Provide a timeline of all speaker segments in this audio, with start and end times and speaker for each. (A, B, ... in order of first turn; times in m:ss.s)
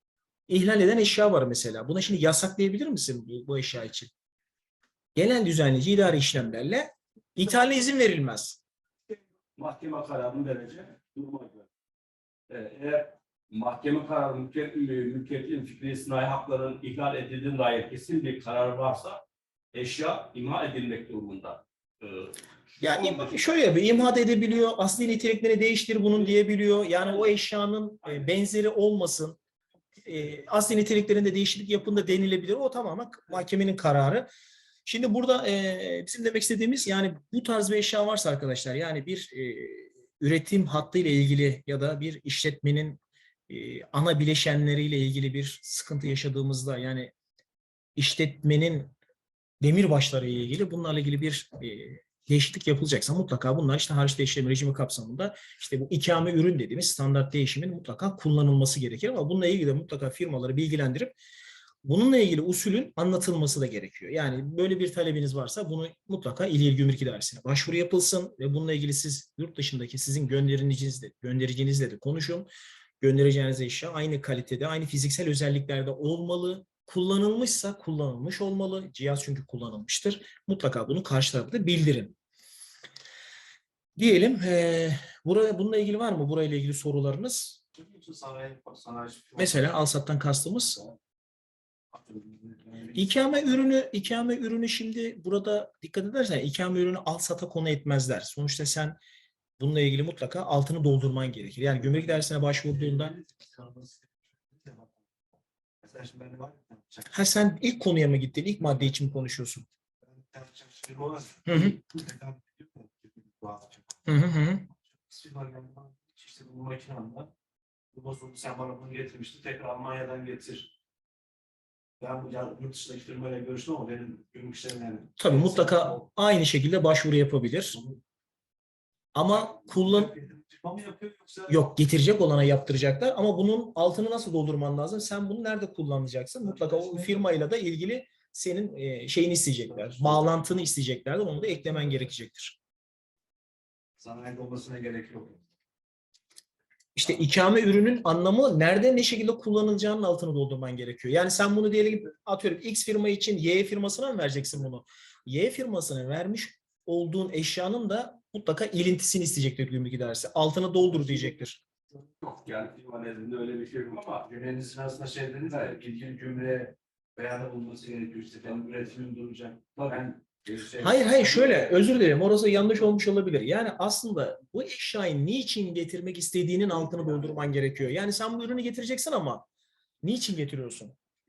0:00.5-0:04.1 A
0:05.2-0:08.6 A
0:09.1-0:11.7 B
0:12.5-0:19.2 B
0:19.7-0:23.4 B
0:22.8-0:29.4 A
0:30.1-0:34.3 A
0:34.9-0:47.1 A
0:48.0-0:48.9 A
0:49.6-1:01.1 A
1:01.8-1:12.5 A
1:13.0-1:22.2 A
1:24.0-1:27.6 A
1:27.8-1:29.7 C
1:29.4-1:30.8 A
1:31.9-1:33.1 C
1:33.0-1:39.0 A
1:39.6-1:43.2 A
1:42.7-1:45.0 C
1:45.8-1:47.1 C
1:47.1-1:49.6 A
1:50.0-1:54.0 C
1:51.5-1:51.8 A
1:54.1-1:54.7 A
1:55.1-1:57.3 C
1:57.9-2:00.7 C
2:02.0-2:06.0 C
2:05.2-2:07.8 A
2:09.1-2:10.1 A
2:09.5-2:11.6 C
2:11.5-2:22.6 A
2:24.0-2:25.4 C
2:27.0-2:41.6 A
2:42.2-2:44.2 B
2:44.2-2:51.7 C
2:50.8-2:59.5 A
3:00.0-3:01.0 A